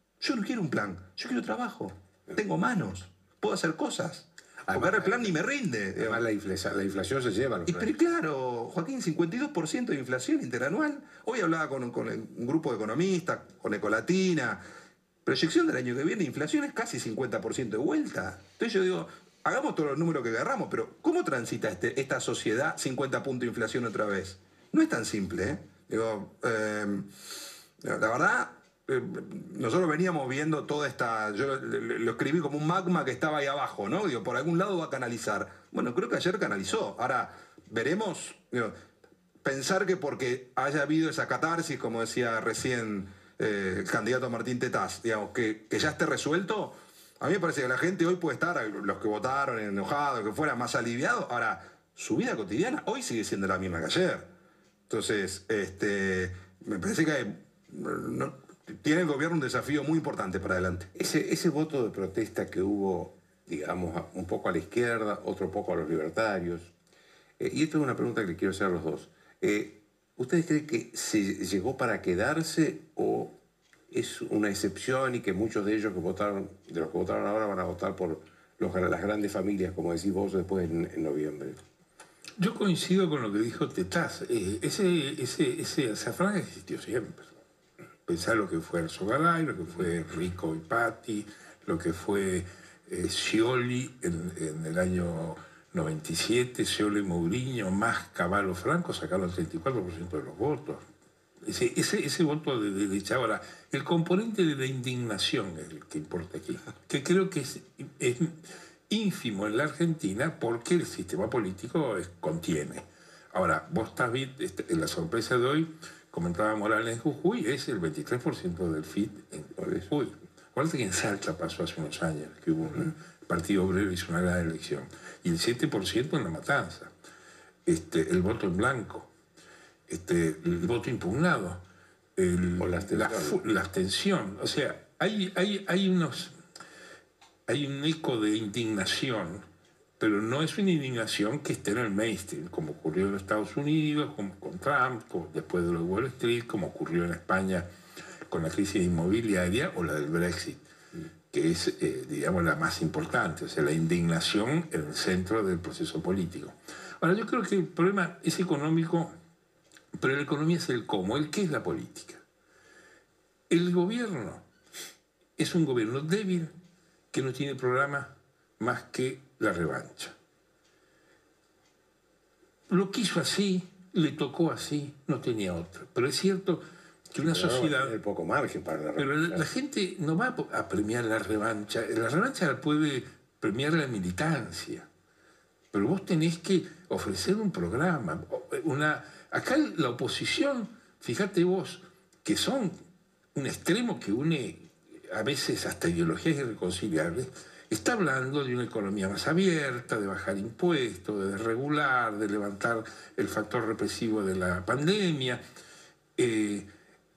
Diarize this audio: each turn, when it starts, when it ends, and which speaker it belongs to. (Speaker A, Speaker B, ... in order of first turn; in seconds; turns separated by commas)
Speaker A: 0.2-6.2, Speaker B: 4.7-5.3, Speaker B: 6.0-7.9, Speaker A: 7.7-14.6, Speaker A: 15.2-27.1, Speaker A: 27.8-38.8, Speaker A: 39.4-54.3, Speaker A: 54.9-60.9, Speaker B: 61.0-66.7, Speaker B: 67.4-73.3, Speaker B: 73.9-81.6, Speaker C: 82.4-87.3, Speaker C: 88.1-100.8, Speaker C: 101.4-126.9, Speaker B: 119.6-119.9, Speaker C: 127.7-129.1, Speaker C: 129.9-131.6, Speaker C: 132.2-136.4, Speaker B: 132.6-133.4, Speaker C: 137.5-139.4, Speaker C: 140.0-147.7, Speaker C: 148.3-150.6, Speaker C: 151.3-159.2, Speaker C: 159.9-162.2, Speaker C: 163.5-164.4, Speaker C: 165.4-166.5, Speaker C: 167.1-170.2, Speaker C: 172.7-177.9, Speaker B: 177.2-179.5, Speaker C: 179.0-184.9, Speaker C: 185.7-192.8, Speaker C: 193.3-205.4, Speaker C: 206.2-206.7